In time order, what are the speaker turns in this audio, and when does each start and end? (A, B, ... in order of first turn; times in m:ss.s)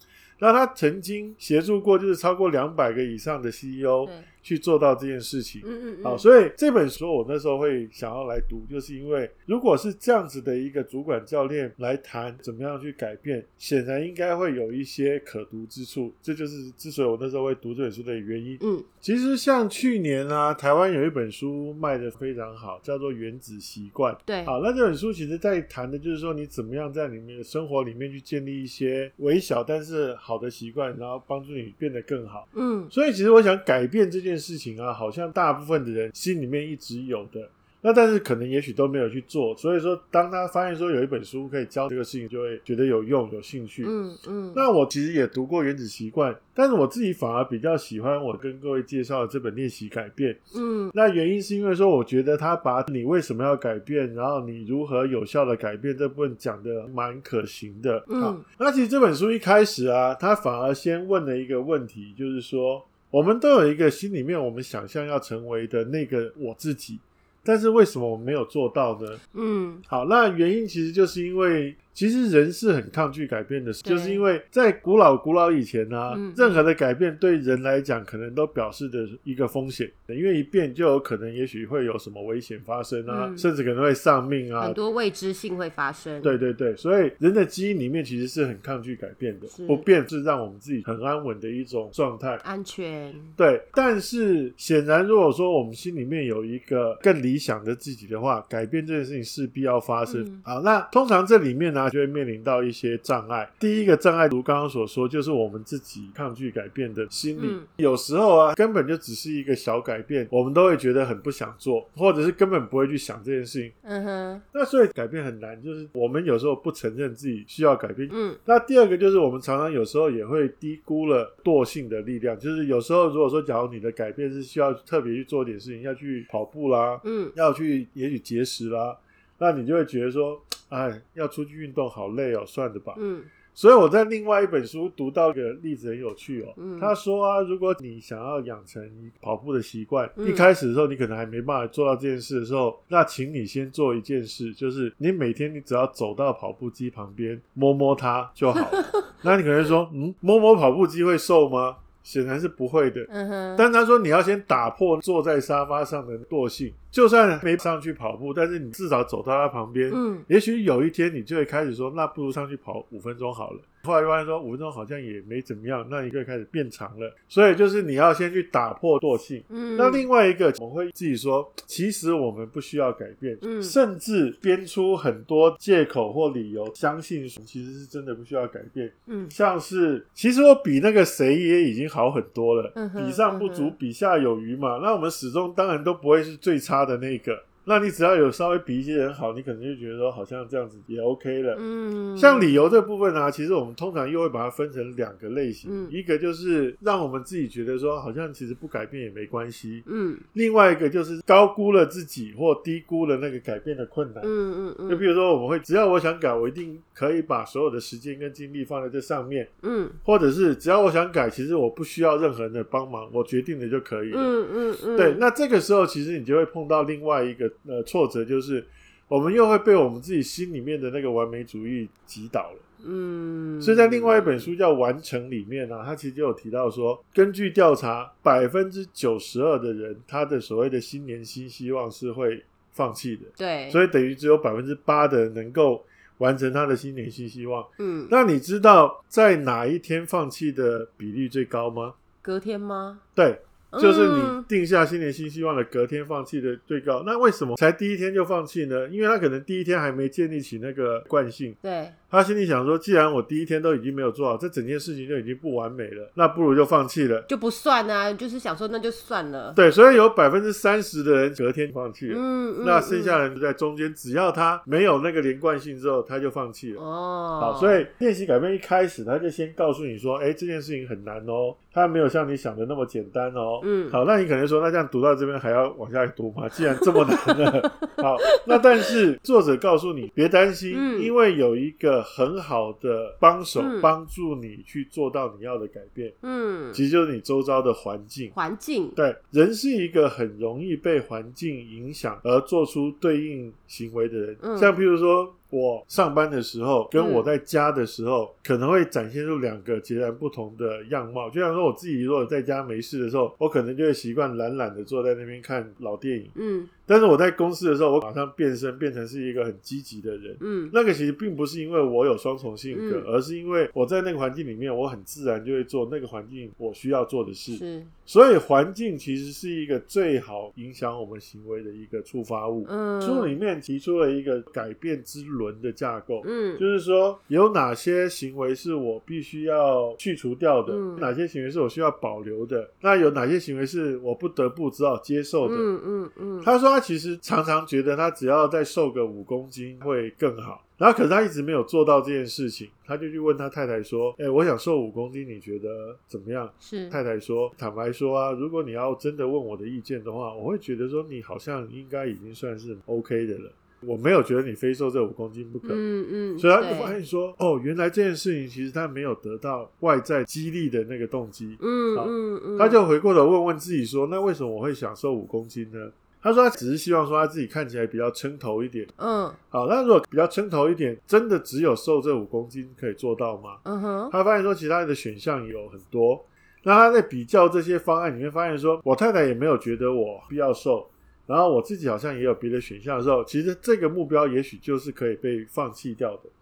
0:00.4-0:43.9 A
0:05.6-0:06.2 B
0:18.6-0:18.9 B
0:24.2-0:24.6 B
0:32.5-0:32.9 B
0:43.8-0:44.6 B
0:44.5-0:50.4 A
0:50.5-0:50.9 B
0:50.9-1:09.2 A
0:58.1-0:58.4 B
1:09.3-1:09.8 B
1:09.9-1:24.8 A
1:13.8-1:14.2 B
1:16.1-1:16.6 B
1:23.1-1:23.4 B
1:24.6-1:26.4 B
1:26.2-1:32.4 A
1:29.5-1:29.9 B
1:32.4-1:33.4 B
1:33.4-1:53.7 A
1:40.1-1:40.4 B
1:47.4-1:47.7 B
1:53.8-1:54.4 B
1:54.5-2:13.0 A
1:58.1-1:58.4 B
2:07.0-2:07.3 B
2:13.0-2:13.3 B
2:13.5-3:11.6 A
2:16.6-2:17.0 B
2:20.2-2:20.5 B
2:28.6-2:29.1 B
2:33.1-2:33.6 B
2:39.9-2:40.2 B
2:49.5-2:50.1 B
2:53.4-2:53.8 B
2:59.1-2:59.3 B
3:02.7-3:03.7 B
3:11.5-3:12.7 B
3:12.2-3:24.3 A
3:15.6-3:15.9 B
3:19.8-3:20.2 B
3:24.2-3:25.0 B
3:24.9-3:29.5 A
3:29.6-3:30.0 B
3:30.0-3:34.3 A
3:34.1-3:35.2 B
3:34.9-3:42.6 A
3:42.8-3:44.5 B
3:43.6-4:01.9 A
3:53.4-3:53.8 B
3:57.8-3:58.1 B
4:02.2-4:03.0 B
4:03.2-4:11.6 A
4:03.7-4:04.5 B
4:11.6-4:12.0 B
4:12.1-4:17.3 A
4:17.3-4:19.6 B
4:19.6-4:26.8 A
4:22.1-4:23.2 B
4:26.8-4:27.9 B
4:27.4-4:46.2 A
4:33.6-4:34.0 B
4:36.8-4:37.8 B
4:40.7-4:41.1 B
4:43.6-4:43.9 B
4:46.2-4:46.8 B
4:46.7-4:48.3 A
4:48.3-4:49.0 B
4:49.0-5:06.3 A
4:54.4-4:54.8 B
4:56.9-4:57.3 B
5:06.3-5:06.7 B
5:06.9-5:35.7 A
5:10.4-5:10.7 B
5:12.7-5:13.1 B
5:17.5-5:17.9 B
5:22.6-5:23.4 B
5:26.2-5:26.6 B
5:30.7-5:31.1 B
5:35.4-5:36.5 B
5:36.4-5:55.8 A
5:46.6-5:47.0 B
5:55.6-5:57.0 B
5:56.4-6:08.9 A
6:01.6-6:02.8 B
6:09.0-6:09.4 B
6:09.5-6:26.3 A
6:13.6-6:14.1 B